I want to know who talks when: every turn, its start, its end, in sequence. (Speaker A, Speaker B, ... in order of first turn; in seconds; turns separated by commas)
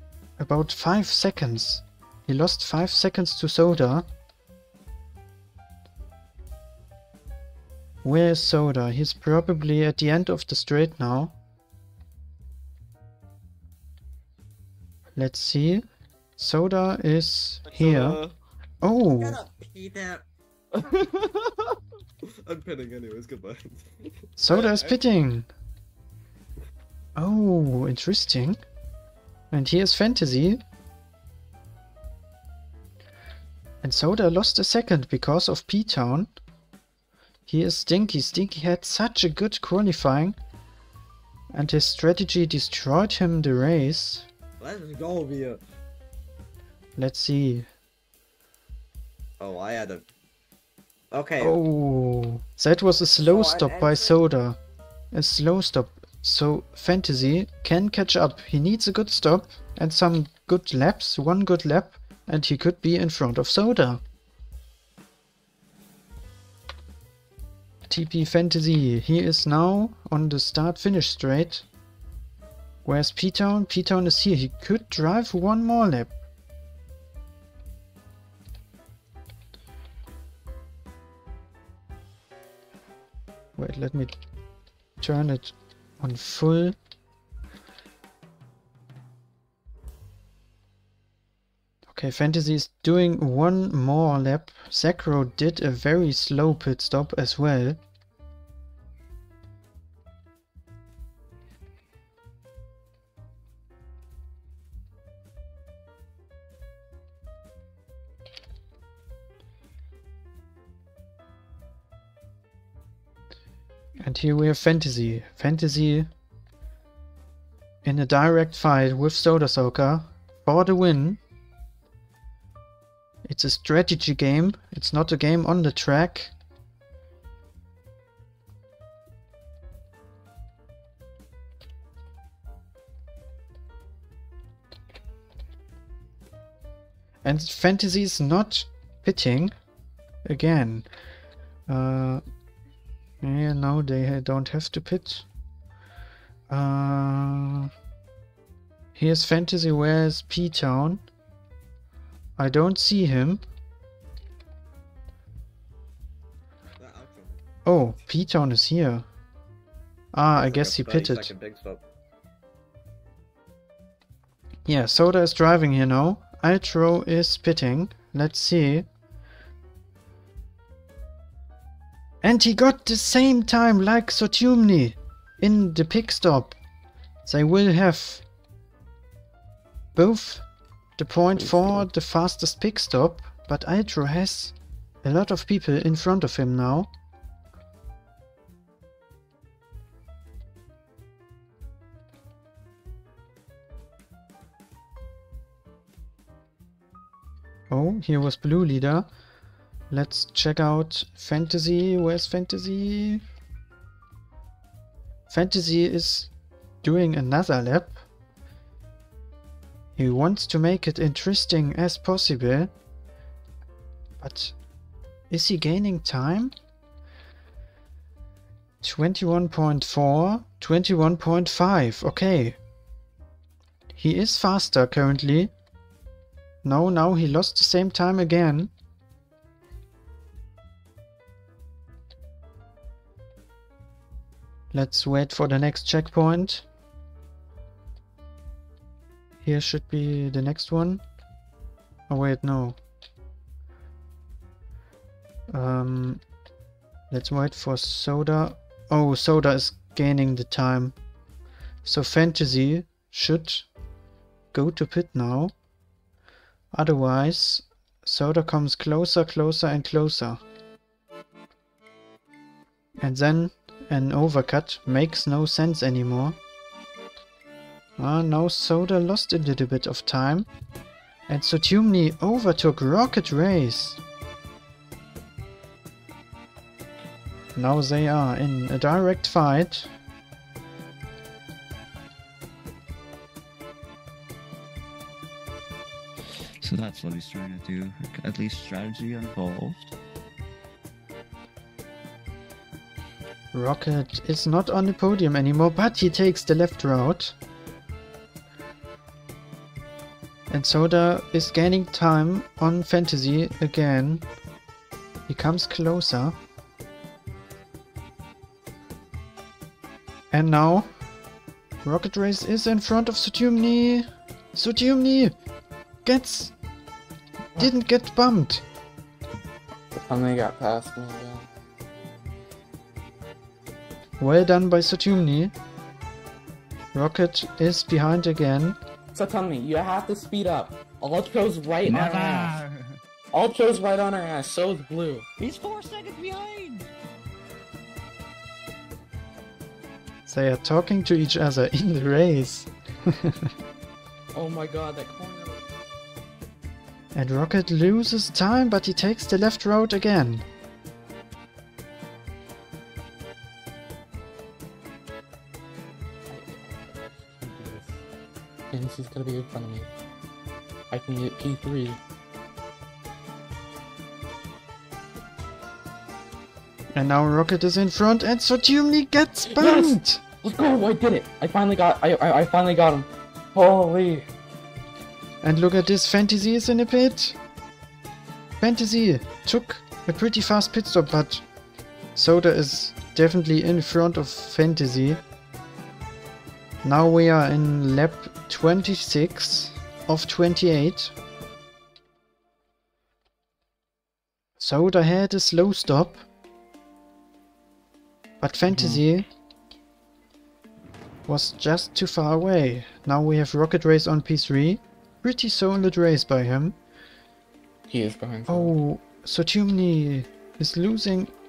Speaker A: 0.4-4.1, Speaker A: 8.0-11.3, Speaker A: 15.2-15.8, Speaker A: 16.4-18.2, Speaker B: 17.6-18.3, Speaker A: 18.8-19.4, Speaker B: 19.2-20.2, Speaker B: 22.4-25.0, Speaker A: 24.4-25.5, Speaker A: 27.2-28.6, Speaker A: 29.5-30.6, Speaker A: 33.8-36.3, Speaker A: 37.5-40.4, Speaker A: 41.5-44.3, Speaker B: 44.6-45.6, Speaker A: 47.0-47.7, Speaker B: 49.4-50.0, Speaker B: 51.1-51.6, Speaker A: 51.4-54.6, Speaker B: 53.1-54.2, Speaker A: 55.1-64.0, Speaker A: 67.9-71.6, Speaker A: 72.8-76.1, Speaker A: 83.6-84.1, Speaker A: 85.0-86.8, Speaker A: 91.9-97.8, Speaker A: 114.0-116.1, Speaker A: 117.8-121.2, Speaker A: 123.2-126.3, Speaker A: 137.2-139.5, Speaker A: 140.2-140.9, Speaker A: 141.7-142.2, Speaker A: 143.2-145.2, Speaker A: 146.5-147.7, Speaker A: 148.9-151.0, Speaker A: 152.4-153.4, Speaker B: 156.8-157.4, Speaker A: 157.6-159.1, Speaker A: 160.1-161.3, Speaker B: 160.3-161.8, Speaker A: 164.7-168.9, Speaker A: 172.2-176.6, Speaker A: 177.2-178.2, Speaker A: 179.9-180.4, Speaker A: 181.0-186.9, Speaker C: 181.3-181.9, Speaker A: 197.7-199.1, Speaker A: 199.9-203.2, Speaker A: 205.3-206.3, Speaker A: 206.8-208.0, Speaker A: 210.0-212.7, Speaker A: 214.2-214.5, Speaker A: 215.3-216.5, Speaker A: 218.8-222.6, Speaker A: 223.9-225.5, Speaker A: 226.6-228.7, Speaker A: 234.7-236.7, Speaker A: 239.4-241.0, Speaker A: 242.1-242.8, Speaker A: 245.5-246.2, Speaker A: 247.1-250.9, Speaker A: 251.8-253.7, Speaker A: 254.5-255.5, Speaker A: 256.7-260.4, Speaker A: 263.0-266.4, Speaker A: 268.0-270.5, Speaker A: 271.3-274.0, Speaker A: 277.6-279.9, Speaker D: 286.6-289.9, Speaker A: 293.5-297.3, Speaker A: 300.5-304.2, Speaker A: 305.3-306.4, Speaker A: 310.3-310.9, Speaker A: 311.8-315.3, Speaker A: 316.0-316.5, Speaker A: 317.6-318.6, Speaker C: 319.9-321.5, Speaker A: 324.2-325.5, Speaker A: 326.9-328.8, Speaker C: 329.1-332.6, Speaker D: 331.8-333.0, Speaker C: 333.3-335.3, Speaker D: 335.4-336.9, Speaker A: 340.3-343.5, Speaker C: 344.3-345.6, Speaker A: 347.1-350.4, Speaker C: 356.3-358.0, Speaker C: 358.7-359.9, Speaker C: 360.9-362.0, Speaker A: 366.9-370.2, Speaker C: 369.5-374.2, Speaker A: 375.4-377.4, Speaker A: 378.6-381.4, Speaker A: 382.1-385.2, Speaker A: 386.8-391.1, Speaker A: 394.6-396.2, Speaker A: 398.4-399.2, Speaker C: 398.7-399.0, Speaker A: 401.3-406.8, Speaker C: 407.9-408.7, Speaker A: 408.5-411.3